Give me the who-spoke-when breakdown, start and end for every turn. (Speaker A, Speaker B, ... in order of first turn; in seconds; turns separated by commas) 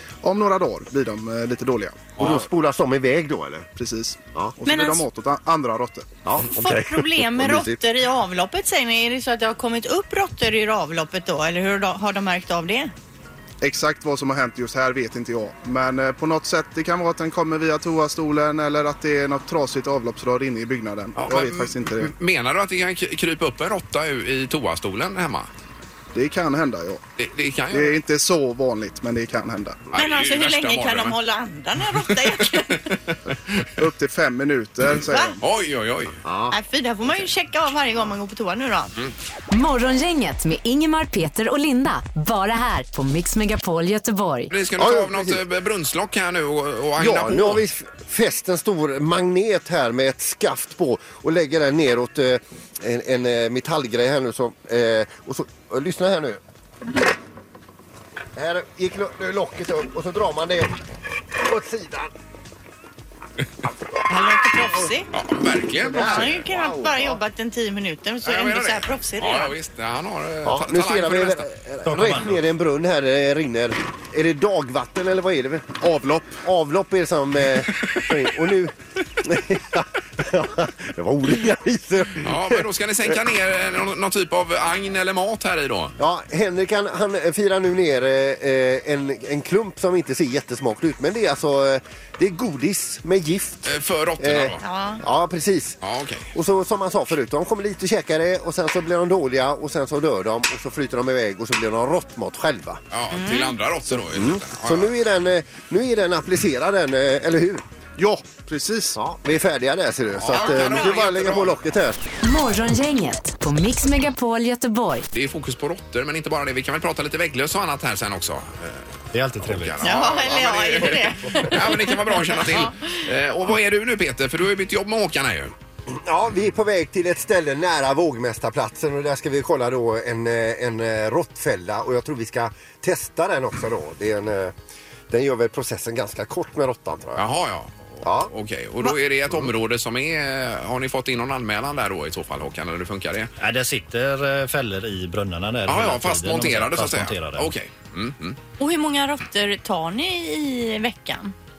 Speaker A: 0.2-2.2, Speaker B: 2.2-3.7, Speaker A: 3.8-6.1, Speaker C: 4.7-5.0, Speaker B: 6.2-7.8, Speaker C: 6.5-12.9, Speaker A: 13.6-22.1, Speaker D: 21.1-25.5, Speaker A: 26.1-27.0, Speaker D: 27.2-28.0, Speaker A: 27.7-29.9, Speaker D: 29.9-31.2, Speaker C: 29.9-32.9, Speaker D: 32.1-33.7, Speaker A: 33.8-35.4, Speaker C: 35.1-35.3, Speaker D: 35.4-36.2, Speaker B: 36.2-36.5, Speaker C: 36.5-38.9, Speaker E: 39.5-44.5, Speaker D: 44.5-47.6, Speaker B: 44.8-45.4, Speaker B: 47.0-56.4, Speaker B: 58.4-60.8, Speaker B: 61.3-62.1, Speaker C: 64.0-65.1, Speaker D: 65.1-66.4, Speaker B: 65.9-67.2, Speaker C: 65.9-69.5, Speaker D: 68.2-71.5, Speaker B: 70.4-83.2, Speaker F: 71.8-72.4, Speaker D: 82.2-85.9, Speaker B: 86.0-95.8, Speaker D: 93.6-94.6, Speaker C: 94.6-95.0, Speaker D: 95.8-96.3, Speaker B: 96.3-102.8, Speaker D: 102.9-104.9, Speaker C: 103.1-103.5, Speaker B: 104.1-107.6, Speaker A: 108.0-109.0, Speaker B: 108.9-112.0, Speaker D: 110.2-111.5, Speaker C: 110.3-111.0, Speaker E: 112.2-115.0, Speaker D: 115.1-118.8, Speaker F: 119.1-119.9, Speaker D: 119.4-125.5, Speaker C: 119.8-122.8, Speaker B: 125.9-134.5, Speaker B: 135.1-137.2, Speaker D: 137.2-143.3, Speaker B: 138.0-138.3, Speaker F: 143.4-147.5, Speaker D: 145.7-148.4, Speaker C: 148.6-151.3